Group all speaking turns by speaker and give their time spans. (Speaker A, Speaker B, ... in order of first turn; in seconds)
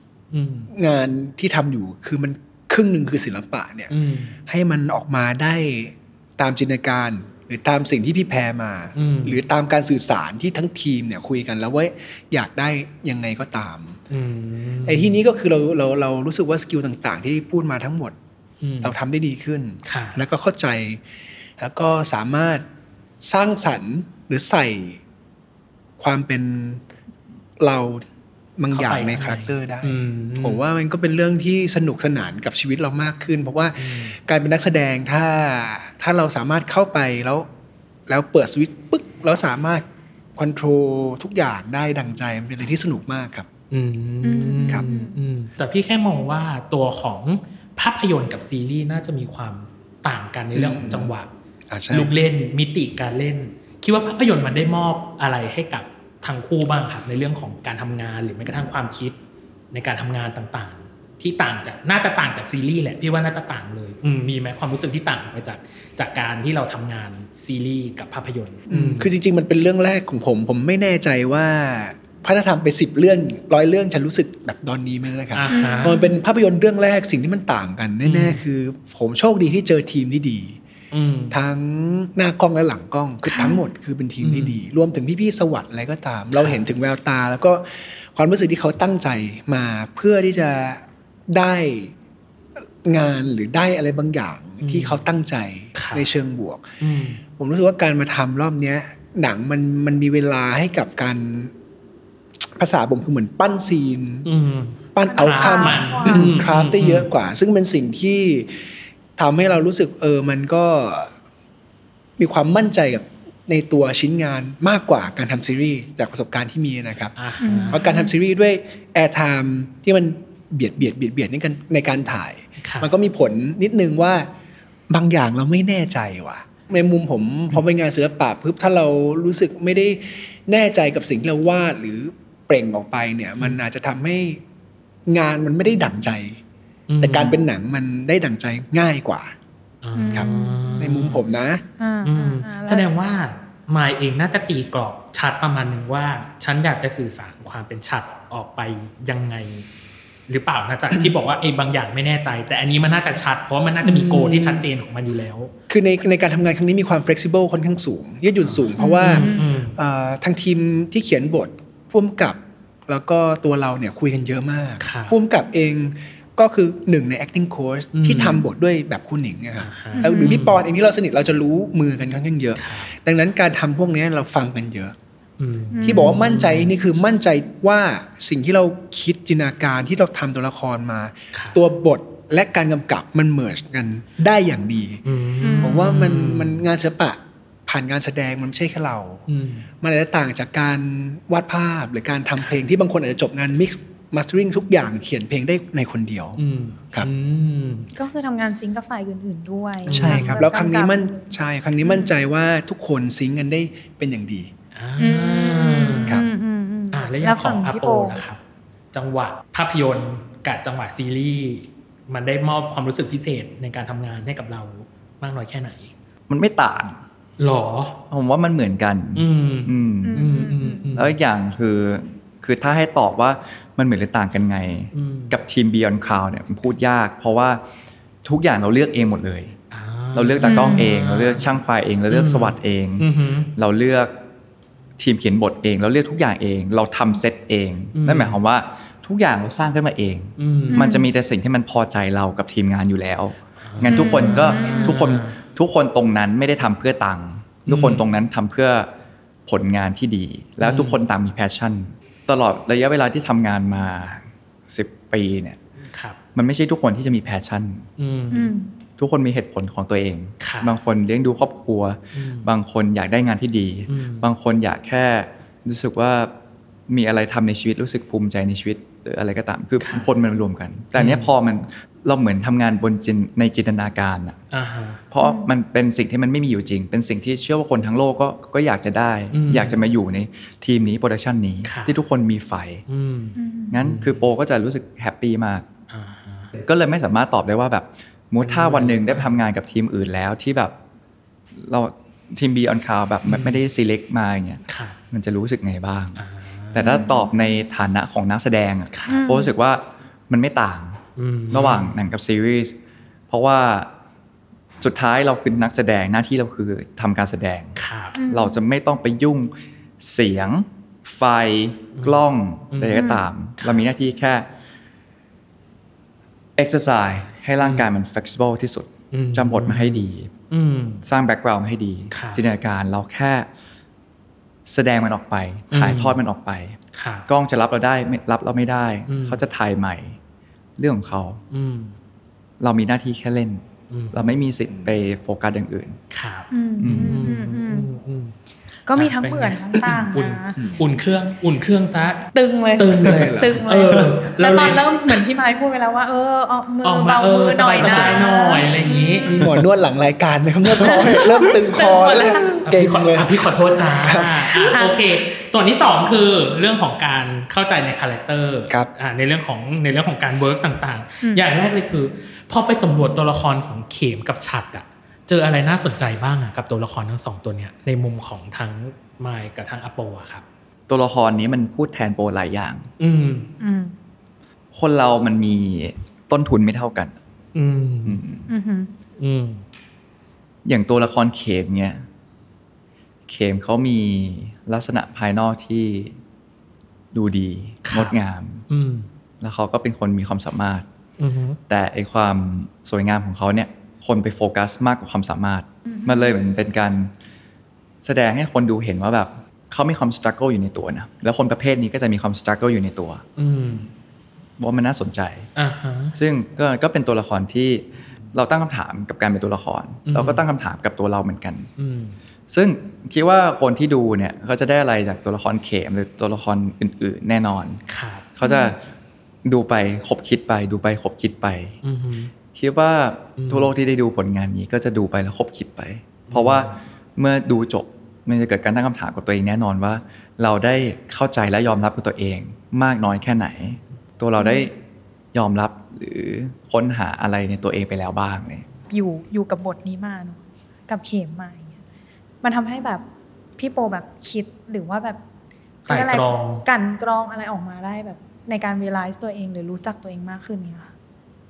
Speaker A: 0.3-0.7, 3.9-4.3, 9.0-9.4, 14.1-15.2, 18.6-19.0, 19.9-20.2, 28.7-30.6, 33.8-34.2, 43.7-51.3, 51.9-59.1, 59.7-69.1, 75.3-76.0, 78.0-78.4, 80.9-81.4, 83.2-83.5, 84.2-84.6, 86.3-86.6, 94.6-95.0, 95.8-96.1, 96.8-97.2, 104.3-107.1, 117.2-117.8, 122.6-122.9, 136.9-137.4, 139.8-141.2, 142.1-149.7, 150.3-155.5, 158.4-159.8, 164.8-165.2, 167.9-168.4, 169.6-170.6, 172.6-172.9, 175.4-176.7, 181.3-181.6, 185.1-186.6, 189.3-189.7, 196.4-197.9, 199.9-200.6, 204.8-206.2, 206.9-208.4, 208.9-215.9, 217.4-218.0, 219.2-221.2, 224.9-225.4, 229.7-231.4, 232.1-233.5, 237.9-238.4, 240.4-240.9, 243.6-245.3, 247.7-248.0, 250.6-251.0, 255.9-256.2, 258.0-258.5, 260.4-260.8, 262.1-262.5, 263.9-264.3, 269.8-270.1, 270.9-271.3, 274.5-275.0, 279.3-279.8, 281.6-282.0, 282.9-284.2, 285.9-286.5, 288.4-289.4, 293.3-293.6, 294.7-295.0, 296.2-297.1, 298.9-299.3, 301.2-301.9, 307.8-308.2, 312.0-313.9, 317.6-317.9, 319.1-321.0, 322.1-322.4, 325.7-326.2, 326.9-327.3, 329.1-329.4, 331.5-331.9, 333.9-334.2, 336.1-338.4, 338.9-342.2, 342.8-344.8, 346.8-349.6, 350.8-351.5, 352.5-370.4, 373.0-373.5, 377.6-378.2, 379.2-379.6, 387.9-388.1, 388.7-389.1, 391.2-391.6, 403.4-403.9, 405.6-406.2, 410.1-410.4, 411.8-412.2, 417.9-418.3, 421.8-422.3, 423.4-423.7, 426.3-426.8, 445.9-446.6
Speaker B: 0.7-3.9, 4.5-14.0, 14.9-18.1, 18.8-21.0, 21.6-22.6, 23.2-25.0, 26.0-26.8, 27.6-28.1, 28.6-37.5, 38.1-43.5, 50.5-51.1, 51.7-52.1, 68.7-80.6, 81.3-91.9, 92.8-96.8, 97.3-101.5, 102.6-104.3, 105.0-108.6, 109.2-111.1, 112.2-117.1, 117.7-124.3, 124.9-134.4, 135.1-136.4, 137.0-139.3, 140.1-141.6, 153.8-154.7, 155.7-174.9, 175.8-185.0, 185.6-189.2, 189.8-196.4, 199.9-204.5, 334.7-334.9, 340.6-340.9, 343.0-344.2, 347.8-348.1, 349.3-354.8
Speaker C: 44.2-45.1, 75.5-76.1, 83.3-83.7, 105.0-106.5, 117.4-118.1, 140.0-140.8, 141.8-142.9, 158.8-159.4, 169.9-170.4, 175.7-176.3, 185.4-186.0, 197.9-201.2, 205.0-208.2, 220.1-220.8, 230.5-230.9, 240.7-241.1, 243.9-245.1, 258.3-258.7, 275.2-275.5, 283.4-283.8, 299.1-299.5, 308.1-308.6, 312.9-313.2, 336.5-337.9, 338.9-340.6, 342.3-349.4, 350.8-352.5, 354.7-355.0, 373.6-373.9, 378.5-378.9, 395.9-396.4, 418.4-418.8, 434.4-434.7, 438.9-441.8, 442.4-443.0, 443.6-445.2, 445.9-450.9
Speaker D: 216.3-217.0, 218.1-220.3, 220.9-227.6, 228.2-229.6, 230.2-234.1, 235.0-248.9, 249.5-255.6, 256.4-257.9, 259.0-266.3, 266.9-274.4, 275.1-282.8, 283.7-285.7, 286.6-290.8, 291.5-296.2, 296.7-301.0, 301.5-302.8, 303.3-303.9, 304.8-314.5, 316.6-320.3, 321.0-323.5, 324.7-330.2, 330.8-331.4, 332.6-336.0, 336.8-337.3, 370.9-372.9, 374.7-377.1, 378.1-378.5, 380.7-382.0, 383.3-386.1, 387.1-388.6, 389.4-390.9, 391.7-397.1, 398.0-403.2, 404.6-405.5, 406.1-411.7, 412.5-417.8, 418.4-418.8, 419.4-421.8, 422.5-434.8, 435.3-438.7